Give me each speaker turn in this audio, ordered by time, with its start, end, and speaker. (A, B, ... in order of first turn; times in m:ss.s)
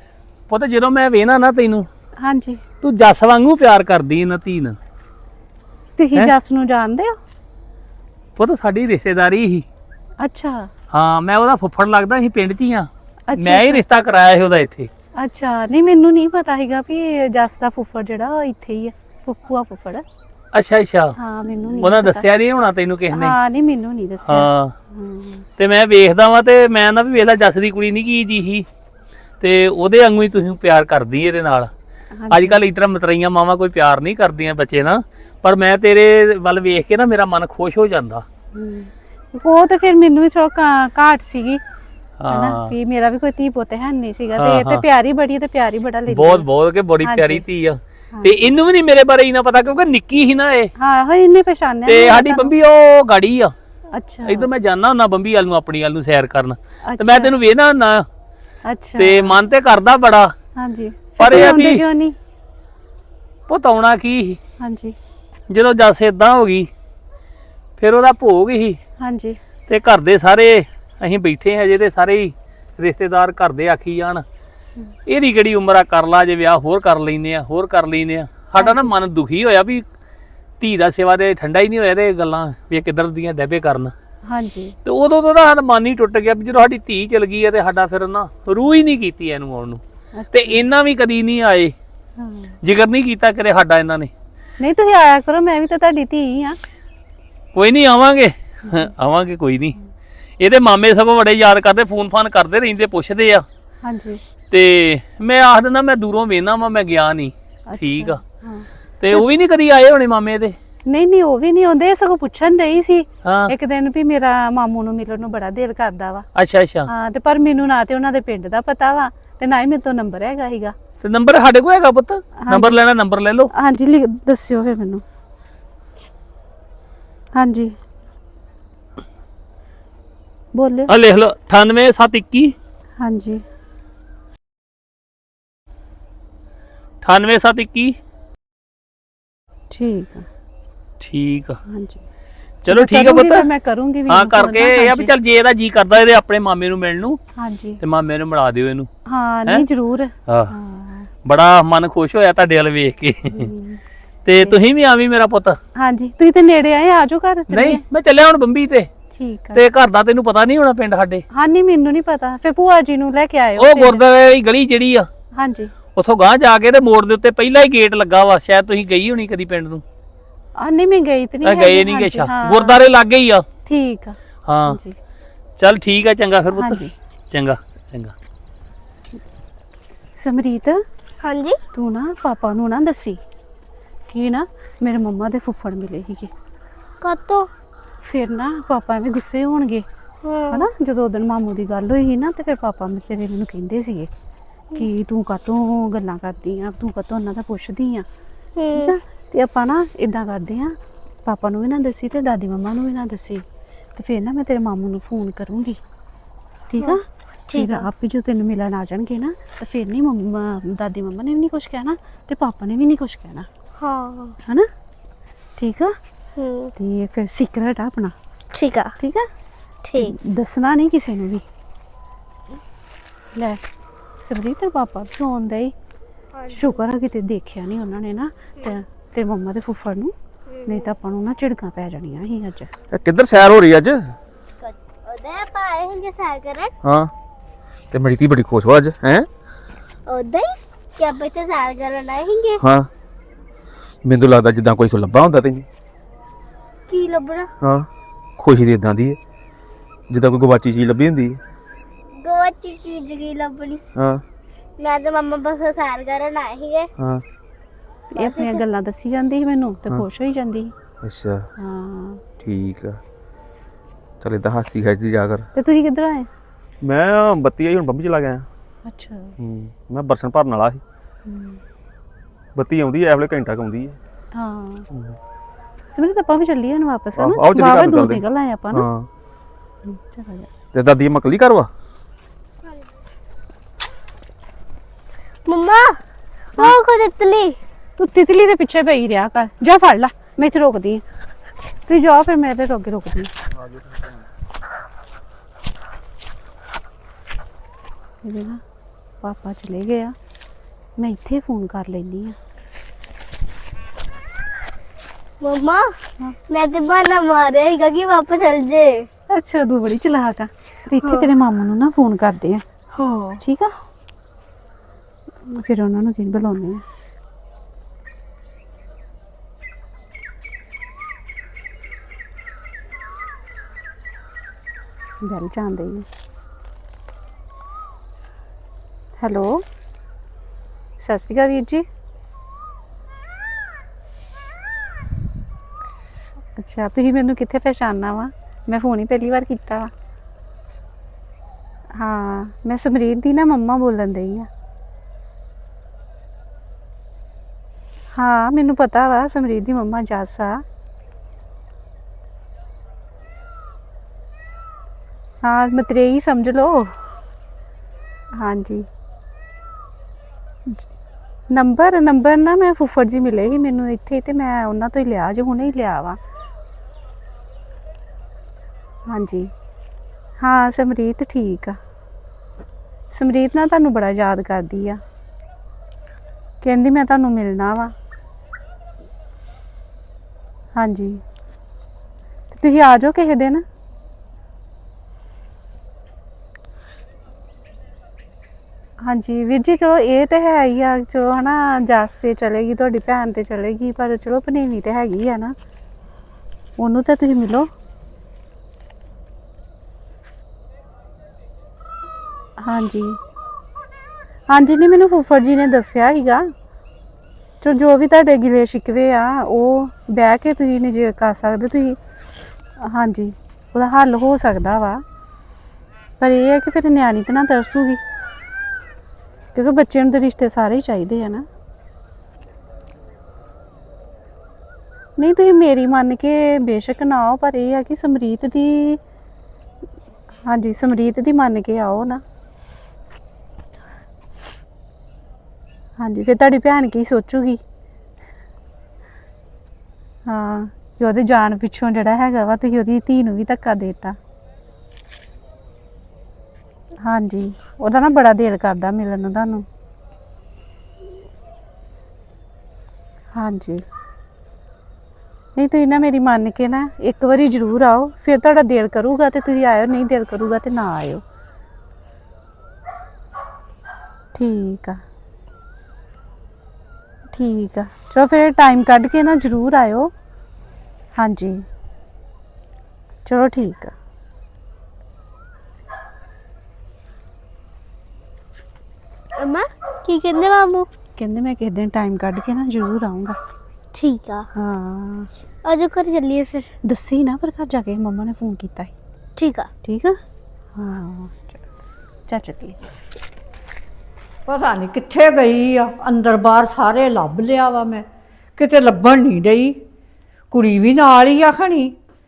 0:00.5-0:01.9 A
0:02.2-0:02.6 B
0:02.8-0:04.8 A
0:06.0-0:07.2 B
0:08.4-0:09.6 A
0:10.2-0:10.7 B
0:10.9-0:14.9 A
0:13.3-0:13.8 B
0:15.2-0:20.0 B
0:20.5-0:21.1 A
0:21.2-0:22.3 B
0:21.8-0:23.4 A
0:23.1-0:25.4 B
0:24.2-0:24.7 A
0:25.6-0:28.6 A
0:29.4-0:31.7 A
0:32.2-0:32.6 B
0:32.3-0:38.2 A
0:38.5-0:41.6 B
0:42.2-0:42.7 A
0:42.3-0:46.4 B
0:44.4-0:44.8 A
0:46.1-0:50.7 A
0:47.0-0:47.4 B
0:48.1-0:48.4 B
0:50.8-0:52.5 B
0:51.8-0:53.5 A
0:53.9-0:54.5 B
0:54.2-0:58.0 A
0:56.8-0:57.3 B
0:58.6-0:59.4 B
0:59.0-1:00.3 A
1:00.6-1:02.1 B
1:01.2-1:01.8 A
1:03.5-1:04.4 A
1:04.6-1:04.9 B
1:05.5-1:06.7 A
1:07.8-1:08.8 A
1:09.0-1:09.4 B
1:09.7-1:14.2 A
1:15.1-1:19.8 A
1:18.6-1:18.9 B
1:20.6-1:23.9 A
1:24.2-1:24.7 B
1:24.8-1:29.8 A
1:30.1-1:30.6 B
1:30.3-1:31.7 A
1:32.2-1:32.5 B
1:32.6-1:34.1 A
1:34.6-1:36.6 B
1:37.5-1:39.7 A
1:40.4-1:43.4 A
1:43.8-1:44.2 B
1:44.5-1:48.2 A
1:47.7-1:49.2 B
1:49.0-1:50.5 A
1:50.9-1:56.2 B
1:53.2-1:53.5 A
1:56.3-1:56.9 A
1:56.9-2:00.7 B
2:01.0-2:03.5 A
2:02.4-2:02.8 B
2:03.5-2:05.0 B
2:07.4-2:07.7 B
2:10.5-2:10.9 B
2:10.9-2:12.5 A
2:13.0-2:13.4 B
2:17.0-2:17.9 A
2:19.7-2:20.2 B
2:21.0-2:21.6 A
2:21.6-2:22.0 B
2:22.6-2:23.5 A
2:22.7-2:25.1 B
2:24.1-2:27.2 A
2:27.4-2:27.8 B
2:27.8-2:28.9 A
2:29.0-2:31.1 B
2:30.3-2:30.5 A
2:31.2-2:33.5 A
2:33.3-2:33.8 B
2:34.2-2:35.6 A
2:35.7-2:37.8 B
2:37.5-2:38.9 A
2:39.1-2:39.6 B
2:39.5-2:41.2 A
2:41.3-2:44.0 B
2:43.6-2:45.1 A
2:45.3-2:45.7 B
2:46.0-2:49.8 A
2:50.6-2:52.8 B
2:51.4-2:53.4 A
2:53.6-2:54.9 B
2:54.5-2:54.8 A
2:55.6-2:58.1 A
2:56.5-2:56.9 B
3:00.1-3:00.8 B
3:01.2-3:01.6 C
3:01.7-3:03.2 B
3:04.1-3:06.3 B
3:07.0-3:07.5 C
3:08.0-3:09.8 B
3:10.2-3:10.6 C
3:10.5-3:14.1 B
3:14.8-3:18.0 B
3:18.6-3:18.9 C
3:18.8-3:20.7 B
3:21.2-3:23.4 B
3:24.0-3:25.8 B
3:26.7-3:27.0 B
3:26.8-3:27.8 C
3:27.6-3:33.5 B
3:33.8-3:34.4 C
3:35.6-3:35.9 B
3:36.4-3:36.7 C
3:36.8-3:38.1 B
3:38.5-3:38.9 C
3:39.0-3:39.2 B
3:39.8-3:40.1 C
3:40.0-3:41.4 B
3:43.3-3:43.6 B
3:44.2-3:45.7 B
3:46.3-3:46.7 C
3:46.5-3:50.1 B
3:50.5-3:50.9 C
3:50.6-3:52.7 B
3:52.9-3:54.2 D
3:54.6-3:56.7 C
3:56.8-3:57.1 D
3:57.9-3:59.3 D
4:00.0-4:02.6 C
4:02.6-4:02.9 D
4:04.0-4:05.6 D
4:06.9-4:07.5 C
4:07.6-4:09.2 D
4:10.1-4:11.4 D
4:12.2-4:13.8 C
4:14.0-4:14.2 D
4:14.8-4:16.9 C
4:17.0-4:17.2 D
4:18.1-4:20.7 B
4:18.1-4:18.6 C
4:21.0-4:21.4 D
4:21.6-4:22.2 B
4:22.4-4:23.0 D
4:24.2-4:25.4 D
4:25.6-4:26.3 B
4:26.8-4:28.5 D
4:28.8-4:29.3 B
4:29.4-4:30.8 D
4:31.2-4:31.6 B
4:32.5-4:34.0 D
4:34.3-4:34.8 B
4:34.9-4:35.2 D
4:35.9-4:38.8 B
4:37.2-4:39.1 D
4:39.8-4:40.5 B
4:40.7-4:41.7 D
4:45.4-4:46.0 C
4:46.6-4:47.6 C
4:48.0-4:51.0 B
4:51.8-4:53.3 B
4:58.2-4:58.6 B
4:59.2-5:00.1 B
5:01.0-5:02.4 B
5:05.4-5:06.0 C
5:06.5-5:09.1 C
5:09.3-5:12.6 B
5:11.0-5:11.3 C
5:12.9-5:13.4 C
5:13.4-5:13.7 B
5:15.4-5:16.8 B
5:25.2-5:26.0 B
5:29.2-5:29.6 B
5:31.0-5:31.8 B
5:36.6-5:39.9 B
5:41.9-5:44.5 B
5:48.1-5:50.6 B
5:55.4-5:57.0 B
5:58.4-5:58.8 B
6:01.5-6:06.2 B
6:09.1-6:09.5 B
6:10.4-6:11.8 B
6:13.1-6:15.0 B
6:16.6-6:17.9 B
6:20.7-6:21.2 B
6:22.5-6:23.6 B
6:29.0-6:35.5 B
6:36.8-6:37.6 B
6:42.6-6:43.2 B
6:44.5-6:46.4 B
6:47.6-6:52.0 B
6:52.8-6:55.0 B
6:56.2-6:58.0 B
6:59.5-7:01.4 B
7:05.2-7:09.0 B
7:10.5-7:12.2 B
7:16.0-7:17.6 B
7:20.2-7:24.2 B
7:27.0-7:29.6 B
7:33.3-7:33.8 B
7:35.5-7:41.2 B
7:44.3-7:45.0 B
7:47.3-7:50.1 B
7:51.1-7:51.6 B
7:53.2-7:53.9 B
7:59.4-8:00.9 C
8:01.2-8:03.4 B
8:03.9-8:04.4 C
8:04.5-8:05.3 B
8:05.6-8:06.7 C
8:06.8-8:08.9 B
8:09.4-8:09.7 C
8:09.8-8:10.2 B
8:10.8-8:11.6 B
8:12.3-8:12.8 B
8:14.5-8:18.0 E
8:18.6-8:19.8 E
8:20.5-8:21.9 E